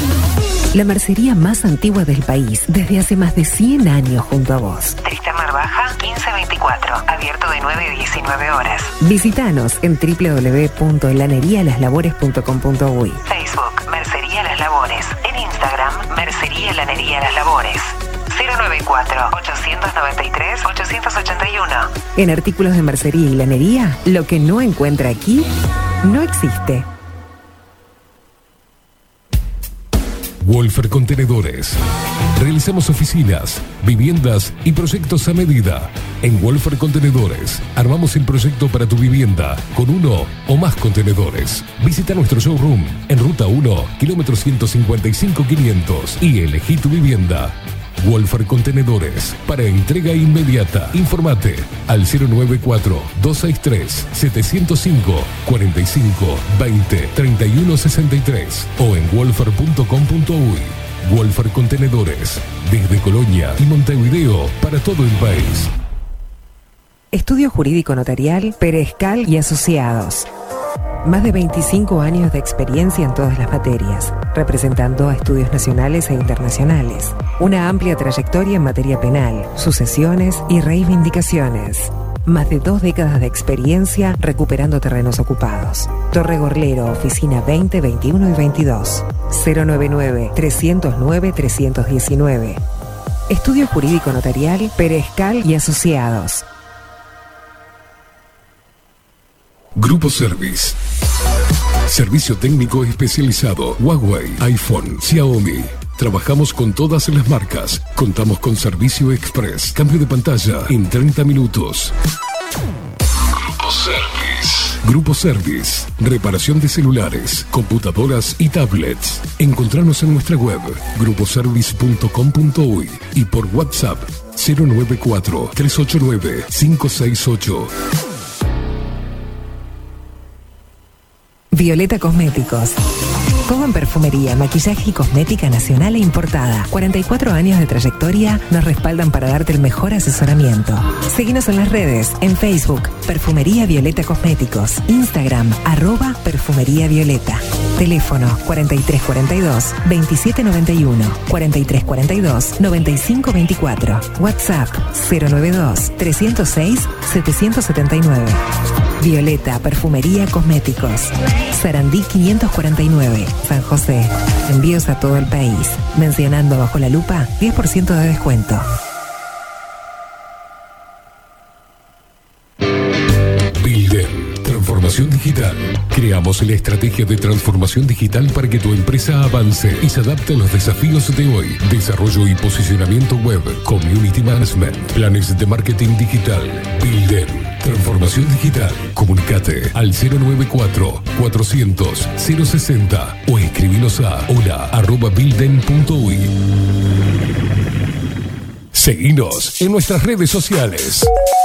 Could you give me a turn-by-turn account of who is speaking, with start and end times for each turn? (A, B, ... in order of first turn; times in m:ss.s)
0:00.7-0:05.0 A
0:05.0-0:08.9 B
0:09.0-0:13.2 A
0:13.2-0:21.9 B
0:22.2-0:25.5 A
0:26.0-0:26.9 A
0:30.4-0:31.8 C
0:32.4-1:05.7 C
1:07.1-1:10.3 A
1:11.0-1:32.6 A
1:33.3-1:36.4 A
1:39.8-1:40.8 C
1:41.9-1:51.9 C
1:53.3-2:07.7 C
2:11.5-2:12.8 A
2:13.4-2:38.4 A
2:39.0-2:48.6 A
2:53.6-3:16.3 C
3:18.7-3:21.1 C